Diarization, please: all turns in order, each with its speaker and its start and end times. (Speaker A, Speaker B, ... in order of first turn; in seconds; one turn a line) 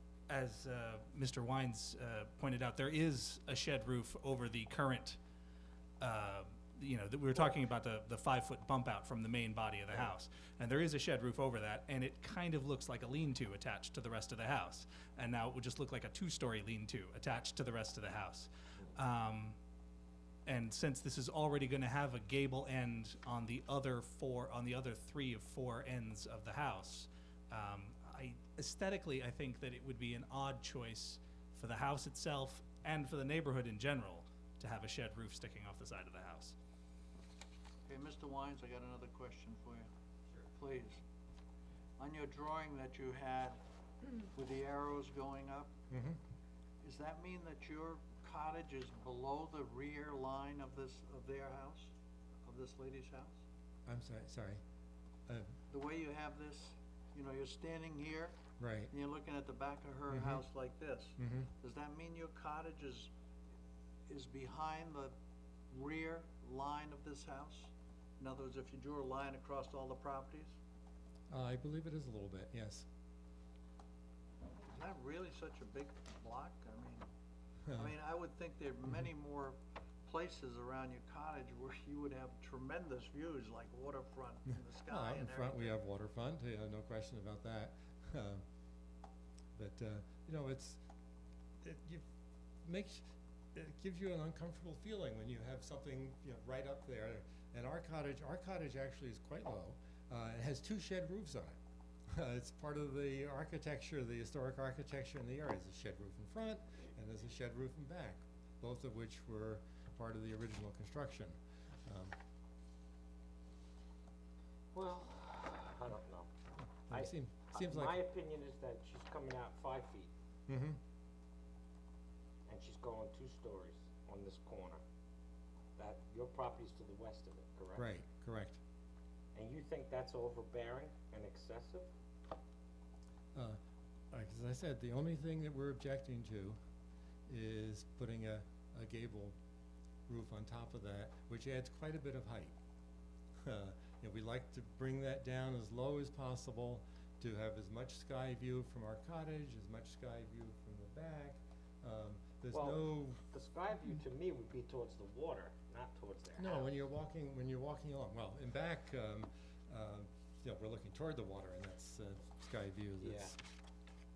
Speaker A: 0.3-5.2
Speaker A: 6.0-19.6
Speaker A: 20.5-36.5
Speaker B: 37.9-39.9
Speaker B: 40.5-41.0
Speaker B: 42.0-43.6
Speaker B: 44.1-45.7
Speaker C: 45.9-46.2
Speaker B: 46.8-51.9
Speaker B: 52.5-53.4
Speaker C: 53.9-54.6
Speaker B: 55.7-58.4
Speaker C: 58.6-58.9
Speaker B: 58.9-63.1
Speaker C: 60.1-60.4
Speaker C: 61.2-61.5
Speaker B: 64.1-65.2
Speaker B: 65.7-70.6
Speaker C: 71.3-72.8
Speaker B: 74.7-77.1
Speaker B: 77.7-85.7
Speaker C: 84.9-88.4
Speaker C: 89.6-90.8
Speaker C: 91.6-92.0
Speaker C: 92.7-101.5
Speaker C: 102.1-112.1
Speaker D: 114.7-116.3
Speaker C: 116.9-118.0
Speaker D: 116.9-120.1
Speaker C: 120.5-120.8
Speaker D: 122.5-124.8
Speaker D: 125.8-127.9
Speaker C: 127.8-128.6
Speaker D: 129.3-131.9
Speaker C: 134.1-136.6
Speaker C: 137.3-139.3
Speaker C: 140.1-142.5
Speaker C: 143.4-153.2
Speaker D: 152.5-156.7
Speaker C: 156.4-163.4
Speaker D: 163.0-163.3